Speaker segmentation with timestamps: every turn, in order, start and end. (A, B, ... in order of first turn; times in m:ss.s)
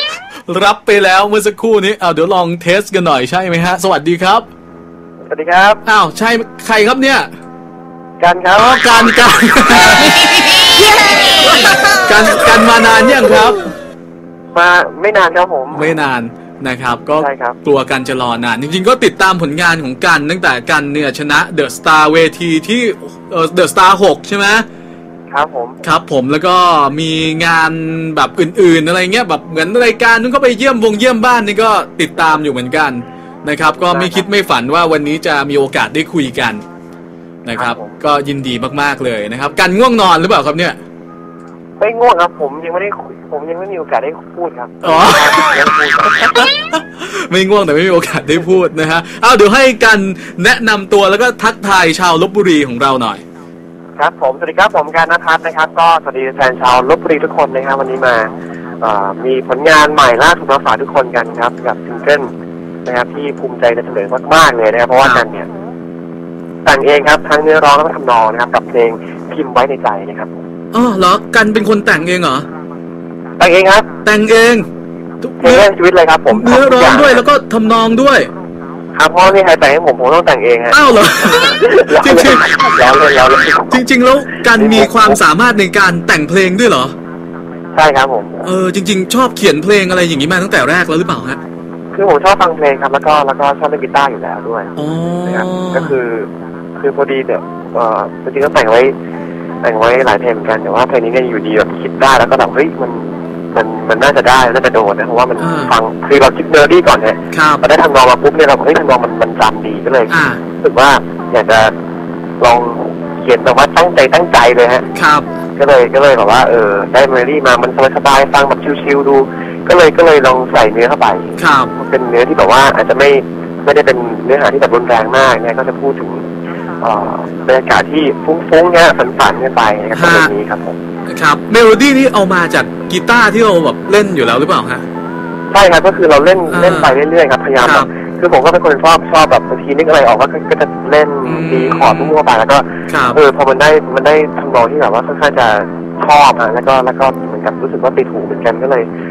0:00.5-0:04.5 A
0:05.3-0:05.8 B
0:05.8-0:07.3 A
0:08.2-0:08.7 B
0:08.5-0:10.9 A
0:11.5-0:13.7 A
0:14.5-0:15.9 B
0:15.7-0:24.6 A
0:17.2-0:17.6 B
0:25.3-0:25.8 B
0:25.8-0:36.6 A
0:33.7-0:34.2 B
0:37.4-0:40.8 A
0:37.5-0:38.0 B
0:41.8-0:46.5 B
0:44.8-0:45.7 A
0:46.3-0:53.2 A
0:54.0-1:02.3 B
1:02.8-1:05.5 B
1:06.6-1:10.4 B
1:10.7-1:12.5 A
1:13.4-1:13.9 B
1:14.0-1:14.7 A
1:15.2-1:15.7 A
1:15.4-1:17.2 B
1:16.3-1:18.3 A
1:18.9-1:23.8 B
1:20.7-1:22.8 A
1:23.7-1:26.9 A
1:24.5-1:25.2 B
1:27.7-1:28.5 B
1:28.4-1:31.4 A
1:31.9-1:34.7 B
1:34.8-1:35.9 A
1:35.2-1:38.9 B
1:39.6-1:51.7 B
1:45.4-1:45.7 A
1:47.3-1:47.6 A
1:50.1-1:50.4 A
1:52.4-1:54.8 B
1:54.9-1:55.3 A
1:55.6-2:10.8 B
2:01.4-2:01.7 A
2:09.9-2:10.3 A
2:11.1-2:14.8 A
2:15.5-2:28.9 B
2:16.5-2:16.9 A
2:17.6-2:17.9 A
2:21.2-2:22.2 A
2:22.9-2:23.2 A